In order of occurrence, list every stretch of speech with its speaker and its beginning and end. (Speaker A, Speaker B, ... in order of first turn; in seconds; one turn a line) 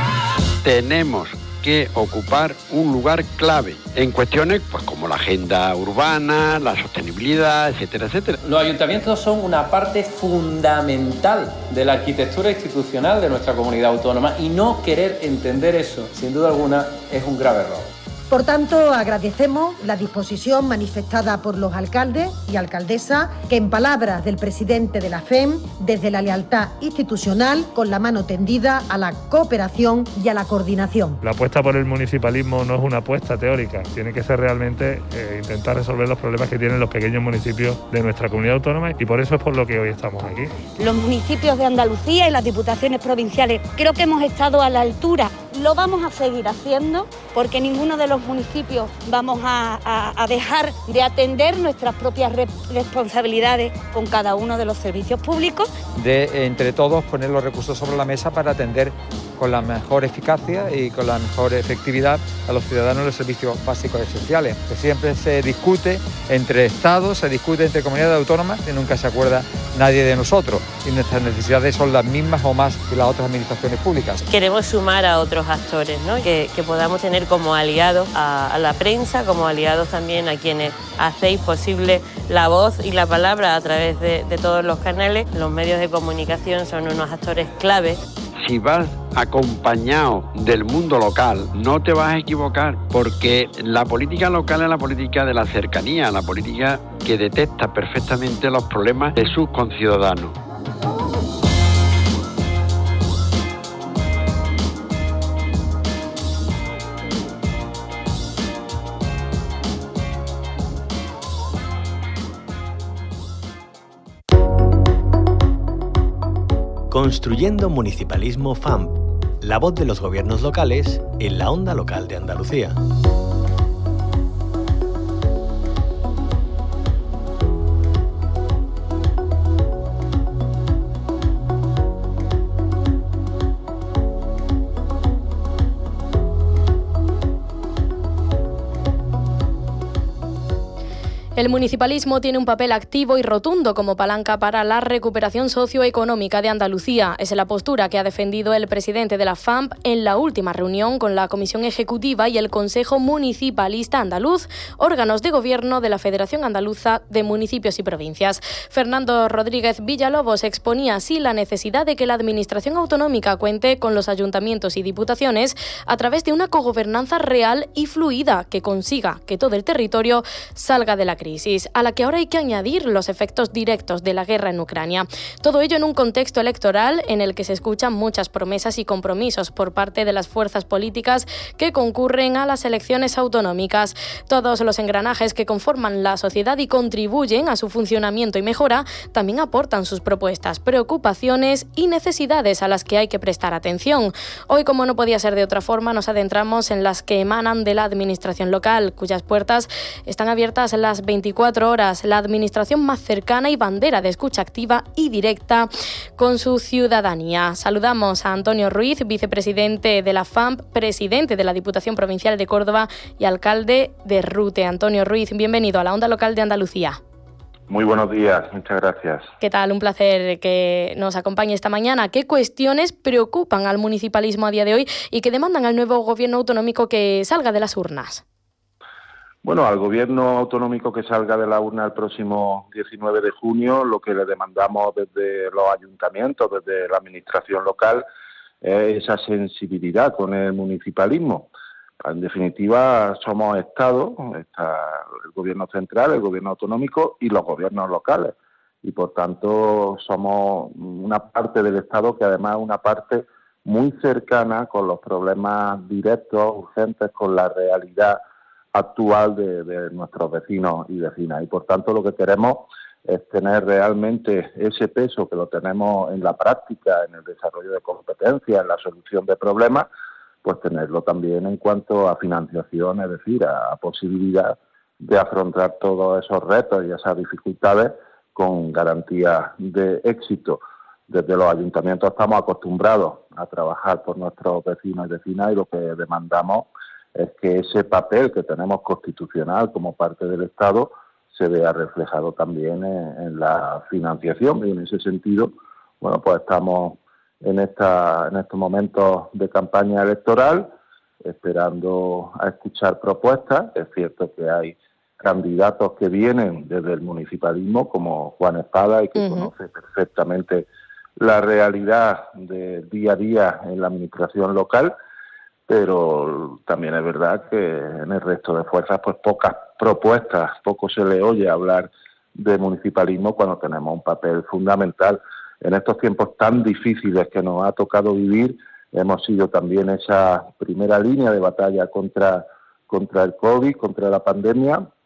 Speaker A: 0.6-8.3
Speaker B: 8.4-17.9
Speaker C: 18.3-31.2
Speaker D: 31.2-40.5
Speaker E: 40.8-55.7
Speaker F: 56.0-74.2
Speaker G: 74.2-88.0
Speaker A: 88.5-100.3
Speaker H: 116.9-122.8
Speaker I: 141.3-217.0
Speaker J: 217.7-219.3
Speaker I: 219.4-228.2
Speaker J: 229.4-238.0
Speaker J: 238.6-241.5
Speaker J: 242.0-258.2
Speaker J: 258.7-269.9
Speaker J: 270.4-314.9
Speaker I: 309.2-309.5
Speaker J: 315.7-334.9